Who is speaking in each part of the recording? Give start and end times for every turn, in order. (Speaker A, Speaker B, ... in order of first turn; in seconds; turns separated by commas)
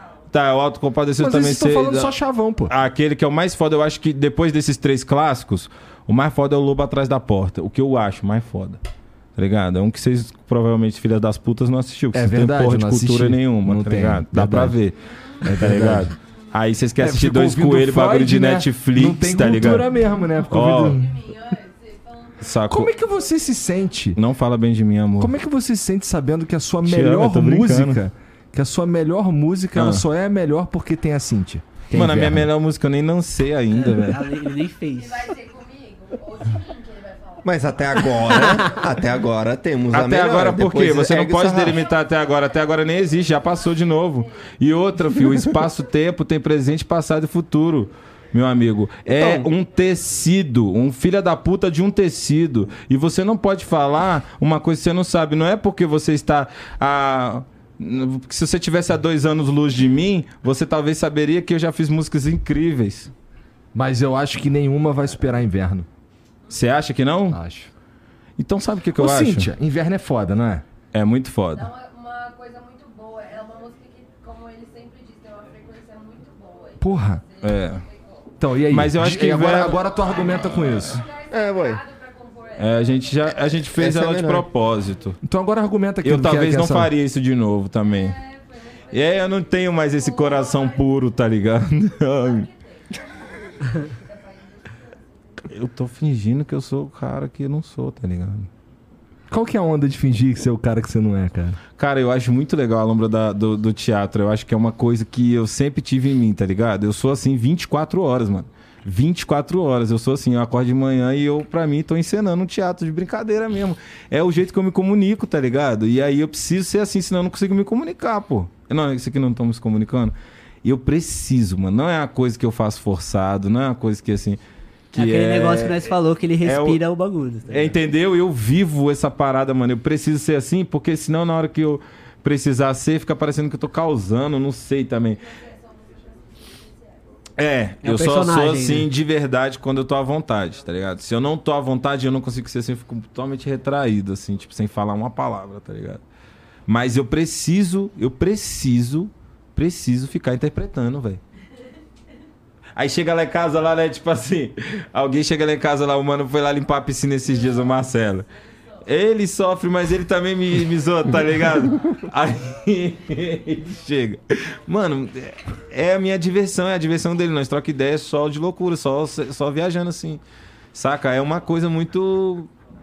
Speaker A: 0.3-2.1, Speaker B: 1.2-2.7, Speaker A: 2.7-8.8, Speaker A: 9.4-19.9, Speaker B: 12.1-14.8, Speaker B: 15.4-16.1, Speaker B: 17.0-21.1, Speaker A: 20.5-21.0, Speaker C: 20.7-23.3, Speaker A: 22.4-22.9, Speaker B: 22.7-24.2, Speaker A: 24.1-25.3, Speaker B: 25.2-32.5, Speaker A: 26.8-28.0, Speaker A: 29.7-30.0, Speaker A: 31.9-34.2, Speaker D: 33.7-35.3, Speaker C: 34.9-38.8, Speaker E: 37.4-41.8, Speaker D: 38.3-38.7, Speaker A: 39.9-63.1, Speaker C: 41.7-44.2, Speaker E: 49.1-49.5, Speaker B: 63.7-65.9, Speaker A: 66.5-67.4, Speaker B: 67.3-67.7, Speaker A: 68.4-69.5, Speaker B: 69.0-70.6, Speaker A: 70.9-71.7, Speaker C: 71.5-78.3, Speaker B: 76.8-77.2, Speaker A: 77.4-77.8, Speaker B: 78.4-81.0, Speaker A: 78.7-79.8, Speaker C: 80.6-83.5, Speaker E: 81.3-81.8, Speaker A: 82.6-85.2, Speaker E: 83.8-84.4, Speaker B: 85.2-86.9, Speaker A: 86.0-88.2, Speaker C: 87.8-91.0, Speaker A: 88.9-92.5, Speaker C: 92.1-95.0, Speaker A: 95.4-98.5, Speaker B: 99.3-101.6, Speaker A: 101.8-124.4, Speaker A: 124.9-125.9, Speaker D: 124.9-127.7, Speaker A: 126.4-126.8, Speaker A: 127.5-135.2, Speaker C: 135.3-137.0, Speaker A: 137.4-146.0, Speaker D: 137.8-138.9, Speaker A: 146.7-151.2, Speaker A: 152.8-158.3, Speaker A: 158.8-170.2, Speaker A: 170.7-172.5